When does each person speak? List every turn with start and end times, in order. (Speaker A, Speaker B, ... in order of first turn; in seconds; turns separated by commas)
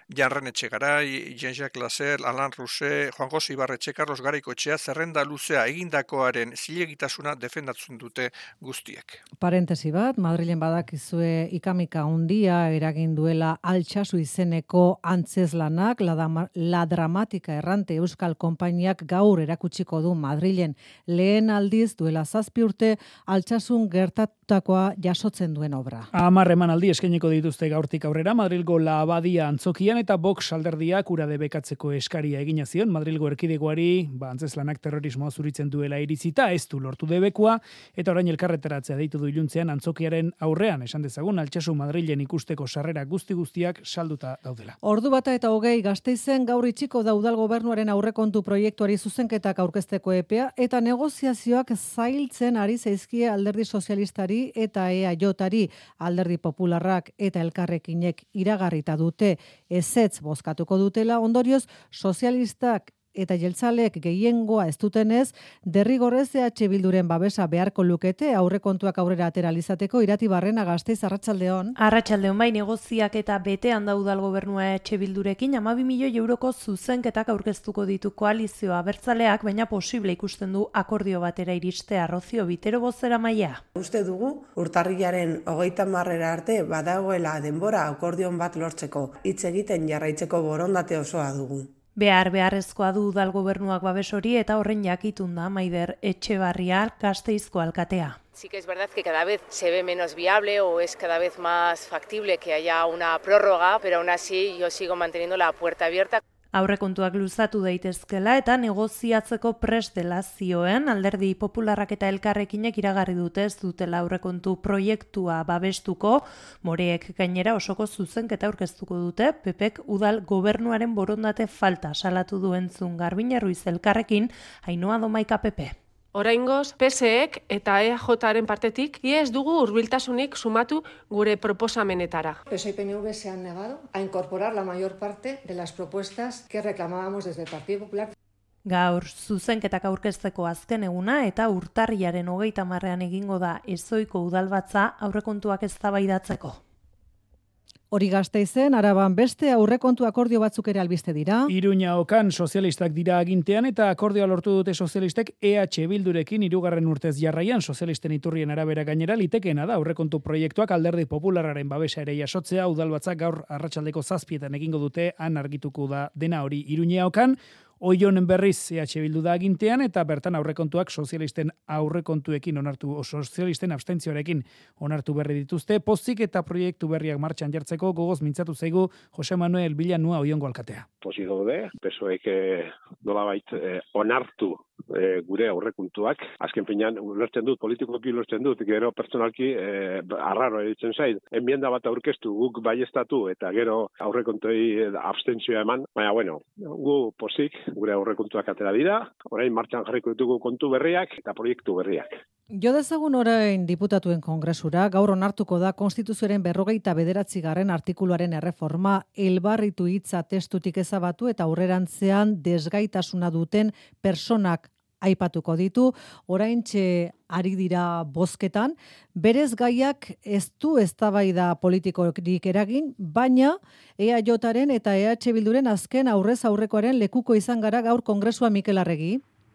Speaker A: 0.1-9.2, Speaker B: 9.4-26.1, Speaker C: 26.1-44.8, Speaker B: 44.8-71.8, Speaker D: 71.8-83.6, Speaker E: 83.8-91.7, Speaker D: 92.0-98.2, Speaker F: 98.3-106.2, Speaker D: 106.5-125.8, Speaker G: 126.2-132.4, Speaker H: 132.5-138.1, Speaker D: 138.7-146.6, Speaker B: 147.9-151.5, Speaker C: 151.5-180.9, Speaker I: 181.0-202.1, Speaker B: 202.5-229.2